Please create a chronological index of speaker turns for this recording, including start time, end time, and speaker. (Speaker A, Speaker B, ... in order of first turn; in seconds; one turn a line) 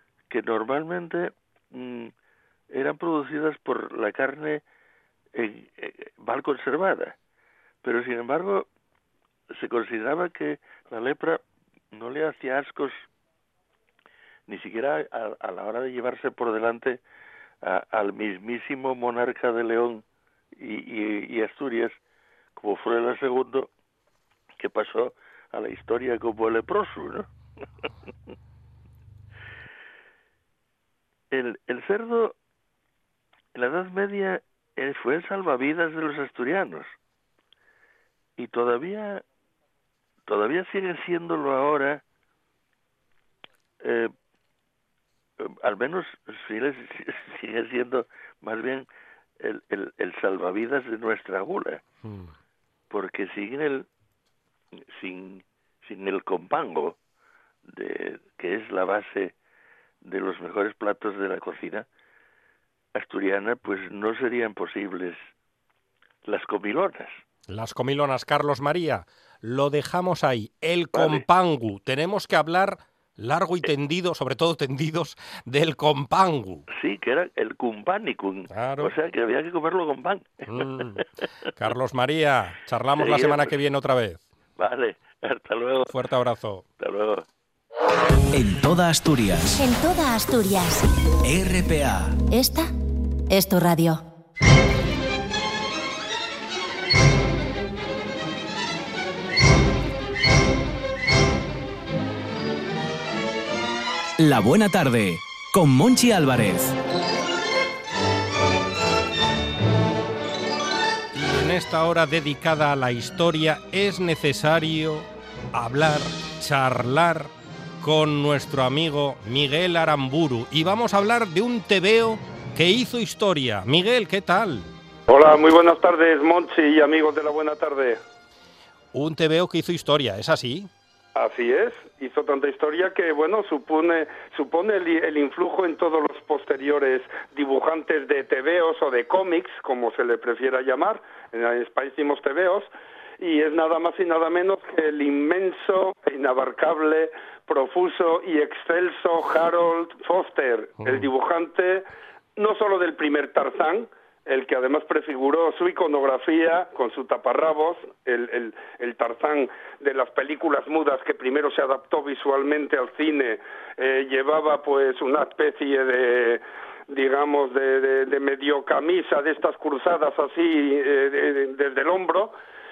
Speaker A: 0.3-2.1
Speaker A: 2.7-4.6
Speaker A: 5.3-7.2
Speaker A: 7.8-8.7
Speaker A: 9.5-13.1
Speaker A: 14.5-17.0
Speaker A: 17.6-20.0
Speaker A: 20.5-22.0
Speaker A: 22.6-23.7
Speaker A: 24.6-27.3
Speaker A: 31.3-32.4
Speaker A: 33.5-37.0
Speaker A: 38.4-39.2
Speaker A: 40.2-42.0
Speaker A: 43.8-44.1
Speaker A: 45.4-48.9
Speaker A: 49.4-51.8
Speaker B: 52.0-52.3
Speaker A: 52.9-53.9
Speaker A: 54.9-57.0
Speaker A: 57.7-59.3
Speaker A: 60.0-61.9
Speaker A: 62.9-65.2
Speaker A: 66.2-67.2
Speaker B: 67.5-76.7
Speaker A: 70.9-71.2
Speaker A: 76.7-81.0
Speaker B: 78.5-78.9
Speaker B: 80.5-81.0
Speaker B: 81.6-84.2
Speaker A: 82.9-83.6
Speaker A: 84.6-85.9
Speaker B: 85.9-86.6
Speaker A: 86.8-87.2
Speaker C: 88.3-89.5
Speaker D: 89.6-90.9
Speaker C: 91.2-92.1
Speaker D: 92.3-92.7
Speaker D: 93.3-94.0
Speaker C: 104.2-106.7
Speaker B: 111.1-124.7
Speaker E: 125.1-128.0
Speaker B: 128.9-130.7
Speaker E: 131.1-151.8
Speaker E: 152.3-172.3